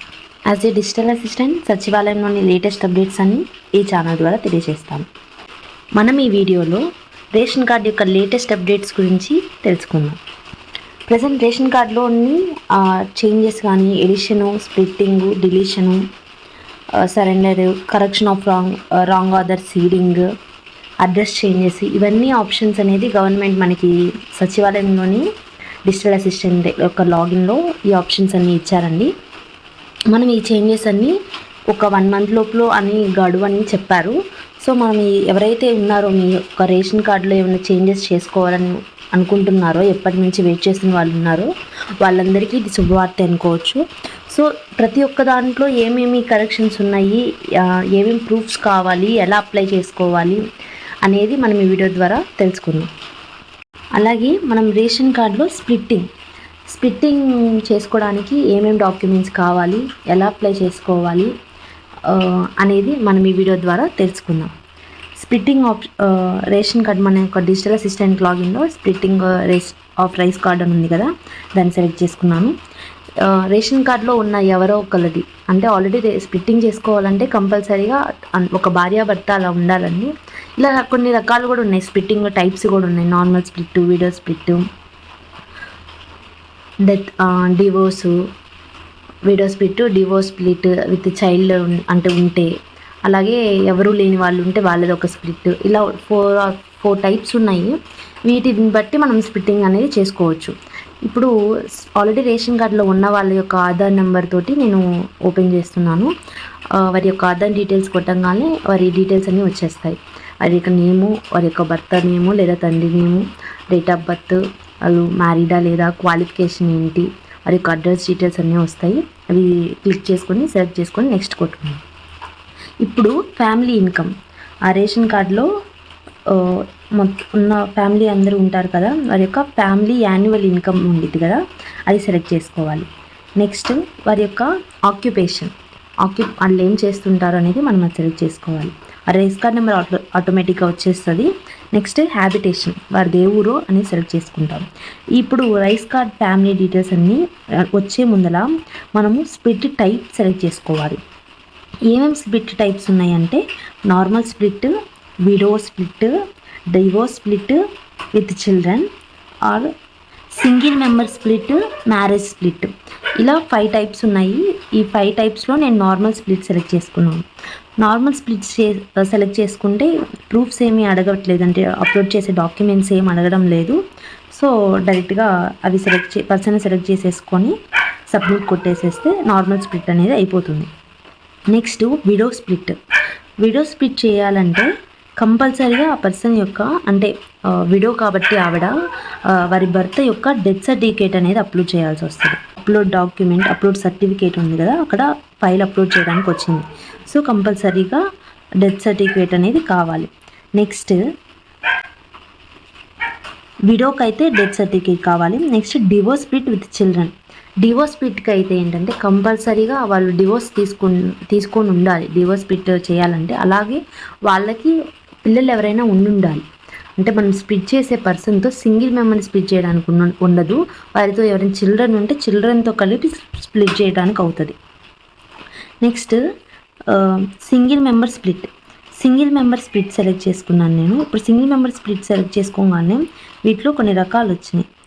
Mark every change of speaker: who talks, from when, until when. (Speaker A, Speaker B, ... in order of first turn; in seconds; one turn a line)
Speaker A: 0.5-5.1
Speaker A: 6.0-6.8
Speaker A: 7.3-10.2
Speaker A: 11.1-16.0
Speaker A: 17.0-20.2
Speaker A: 21.0-25.2
Speaker A: 25.9-29.1
Speaker A: 30.1-31.1
Speaker A: 31.7-41.5
Speaker A: 42.0-50.4
Speaker A: 51.0-52.9
Speaker A: 54.0-56.1
Speaker A: 56.7-61.3
Speaker A: 62.1-64.5
Speaker A: 65.2-72.5
Speaker A: 73.2-84.6
Speaker A: 86.9-88.2
Speaker A: 89.3-92.5
Speaker A: 93.1-100.5
Speaker A: 101.1-106.1
Speaker A: 106.8-121.8
Speaker A: 122.8-124.1
Speaker A: 124.7-125.5
Speaker A: 126.3-132.9
Speaker A: 133.4-135.5
Speaker A: 136.0-144.7
Speaker A: 145.2-147.2
Speaker A: 147.8-151.0
Speaker A: 151.9-154.7
Speaker A: 155.2-156.1
Speaker A: 156.7-157.6
Speaker A: 158.2-158.9
Speaker A: 160.4-167.3
Speaker A: 167.8-173.8
Speaker A: 174.3-177.5
Speaker A: 178.1-180.7
Speaker A: 181.5-182.8
Speaker A: 183.4-184.7
Speaker A: 185.2-187.1
Speaker A: 187.7-188.7
Speaker A: 189.3-198.0
Speaker A: 198.6-201.0
Speaker A: 203.7-214.7
Speaker A: 215.3-216.4
Speaker A: 217.0-224.6
Speaker A: 225.8-226.2
Speaker A: 226.9-234.7